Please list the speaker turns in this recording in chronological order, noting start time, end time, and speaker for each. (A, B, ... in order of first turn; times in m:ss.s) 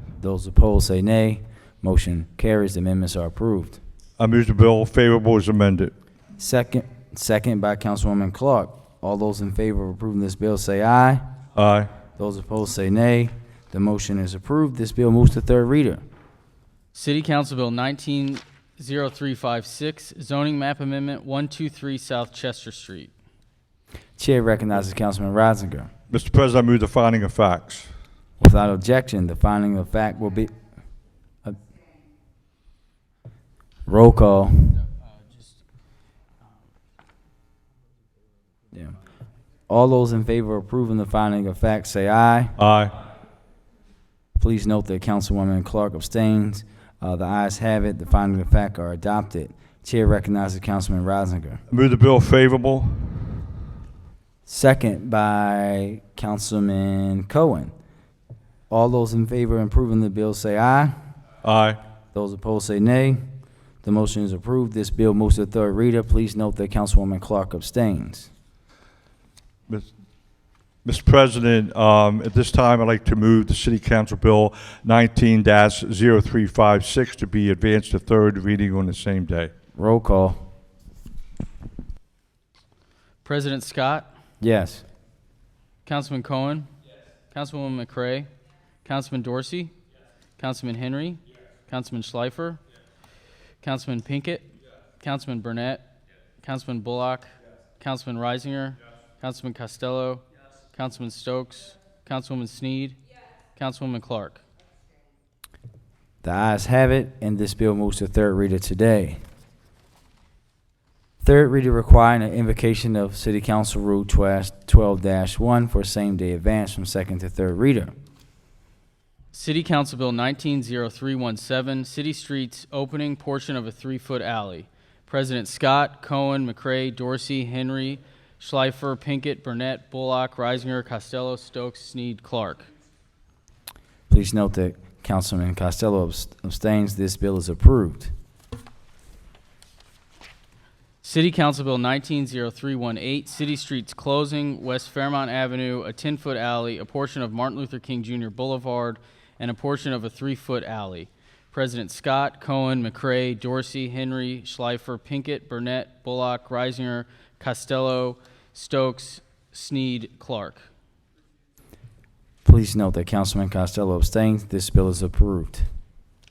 0:00.2-0:03.8 A
0:04.2-0:05.9 B
0:06.4-0:11.2 A
0:11.5-0:11.9 B
0:12.2-0:16.0 A
0:16.9-0:23.1 C
0:24.2-0:25.9 A
0:26.1-0:27.9 B
0:28.4-0:30.5 A
0:33.9-0:34.8 A
0:39.7-0:42.5 A
0:42.6-0:43.0 B
0:44.4-0:51.6 A
0:51.7-0:53.4 B
0:54.4-0:57.7 A
0:58.7-1:00.9 A
1:01.4-1:01.8 B
1:02.1-1:03.2 A
1:03.8-1:08.3 A
1:10.8-1:19.5 B
1:19.8-1:20.4 A
1:23.2-1:24.1 C
1:24.4-1:24.8 A
1:25.8-1:26.7 C
1:27.3-1:28.3 C
1:28.8-1:29.7 C
1:30.4-1:32.6 C
1:33.6-1:43.0 C
1:43.6-1:44.4 C
1:46.2-1:49.2 A
1:51.2-1:57.9 A
1:59.3-2:12.7 C
2:14.1-2:18.1 A
2:21.0-2:40.7 C
2:42.4-2:45.6 A